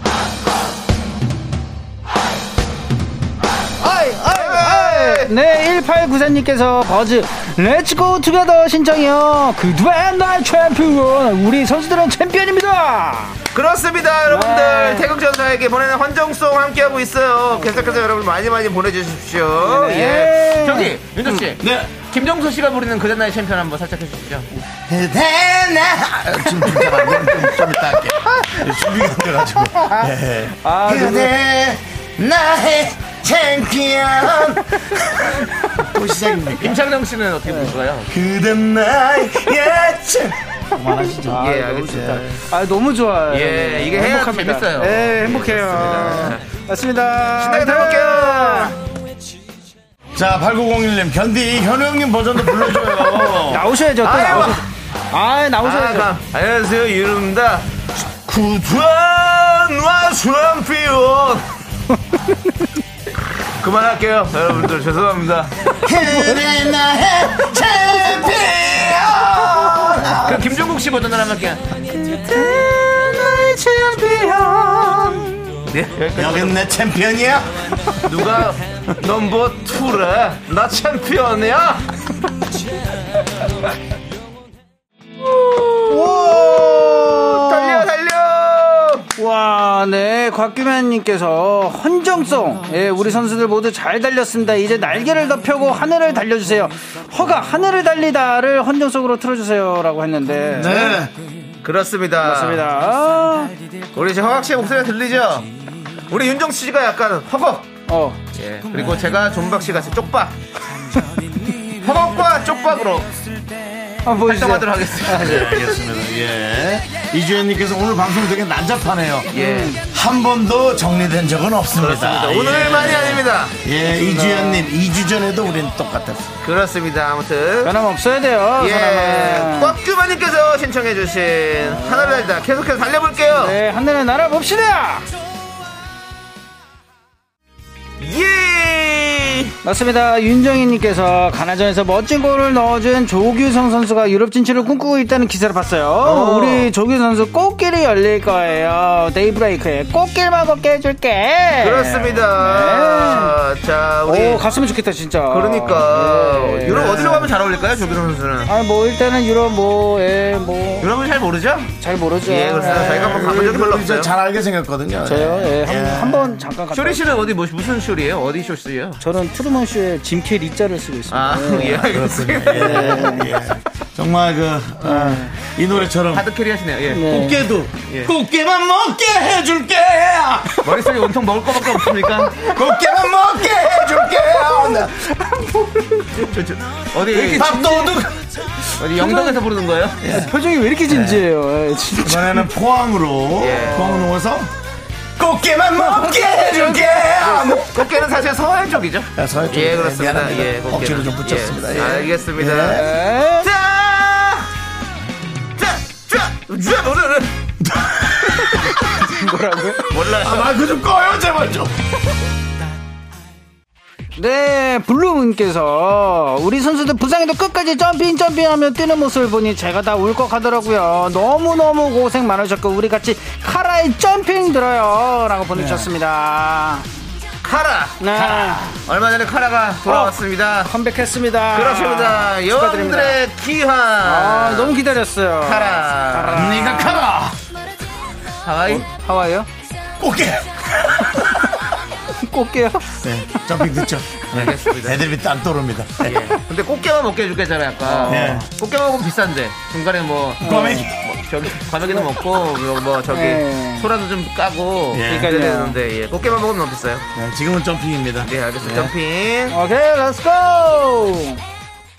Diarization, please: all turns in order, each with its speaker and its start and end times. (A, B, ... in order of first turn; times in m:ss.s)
0:03.8-0:13.4 A
0:04.3-0:05.3 B
0:13.5-0:24.5 B
0:14.3-0:15.1 A
0:17.6-0:18.0 A
0:19.6-0:21.4 A
0:21.6-0:22.0 C
0:24.9-0:36.8 C
0:29.8-0:30.1 A
0:30.6-0:31.3 A
0:36.6-0:38.1 B
0:37.5-0:37.7 A
0:38.1-0:42.3 C
0:41.2-0:48.8 A
0:41.3-0:42.2 B
0:43.3-0:46.4 B
0:47.4-0:48.8 B
0:50.1-0:53.7 C
0:53.5-0:56.1 A
0:54.0-0:54.6 B
0:55.6-1:01.5 B
1:01.9-1:02.6 A
1:03.6-1:05.7 B
1:05.8-1:10.4 C
1:06.0-1:06.5 A
1:10.2-1:16.7 B
1:11.9-1:15.1 A
1:16.1-1:17.9 C
1:18.0-1:21.8 B
1:25.2-1:29.1 B
1:25.9-1:27.9 A
1:29.2-1:41.0 A
1:40.5-1:41.1 C
1:41.6-1:42.6 B
1:42.2-1:43.5 A
1:43.9-1:45.5 B
1:46.1-1:47.7 B
1:47.9-1:48.2 A
1:48.3-1:50.4 B
1:51.7-1:53.1 B
1:54.0-1:55.4 A
1:54.2-1:55.7 B
1:55.1-1:59.3 C
1:59.3-1:59.8 B
1:59.3-1:59.8 A
1:59.9-2:06.4 C
2:01.8-2:03.6 B
2:03.8-2:04.7 A
2:06.4-2:07.7 B
2:07.6-2:09.7 A
2:08.6-2:13.6 B
2:11.6-2:12.3 A
2:13.3-2:15.1 A
2:18.0-2:19.5 B
2:19.6-2:33.4 A
2:26.0-2:26.7 B
2:31.6-2:34.4 B
2:34.0-2:37.3 A
2:35.3-2:38.5 B
2:38.4-2:40.9 A
2:40.8-2:41.7 B
2:41.8-2:43.2 A
2:42.2-2:44.1 B
2:42.6-2:46.4 C
2:45.0-2:47.3 A
2:46.7-2:49.0 B
2:49.0-2:52.0 A
2:51.1-2:53.2 B
2:51.9-2:56.3 C
2:52.5-2:53.3 A
2:54.8-2:55.4 A
2:56.0-2:57.2 B
2:56.9-2:57.4 A
2:57.0-3:00.7 C
2:57.8-2:58.1 B
3:00.6-3:02.5 B
3:02.4-3:05.1 C
3:05.3-3:06.0 A
3:06.2-3:08.0 B
3:07.1-3:07.8 A
3:07.2-3:08.4 C
3:08.8-3:10.1 B
3:08.9-3:09.4 A
3:10.0-3:10.3 C
3:10.1-3:12.5 A
3:10.8-3:11.2 C
3:12.0-3:14.5 C
3:13.4-3:14.0 B
3:13.6-3:14.1 A
3:15.2-3:17.8 C
3:15.9-3:16.9 A
3:17.0-3:24.5 B
3:19.1-3:22.9 C
3:22.7-3:23.5 A
3:25.6-3:27.4 B
3:27.6-3:28.7 C
3:29.0-3:29.9 A
3:29.9-3:30.5 B
3:30.0-3:31.7 C
3:34.2-3:46.8 A
3:47.4-3:50.7 B
3:48.0-3:48.6 A
3:48.2-3:48.6 C
3:49.8-3:53.2 A
3:51.5-3:54.8 B
3:54.0-3:57.0 A
3:55.4-3:56.6 B
3:56.3-3:57.4 C
3:58.4-3:58.8 B
3:58.7-3:59.5 A
4:00.0-4:01.6 C
4:02.2-4:03.7 A
4:03.0-4:06.2 C
4:04.3-4:05.1 B
4:06.0-4:17.0 B
4:07.8-4:08.4 A
4:08.0-4:08.5 C
4:10.4-4:11.0 C
4:10.4-4:10.9 A
4:13.1-4:13.9 A
4:14.9-4:15.3 C
4:15.2-4:15.8 A
4:17.1-4:18.9 C
4:18.2-4:19.6 B
4:19.5-4:21.4 A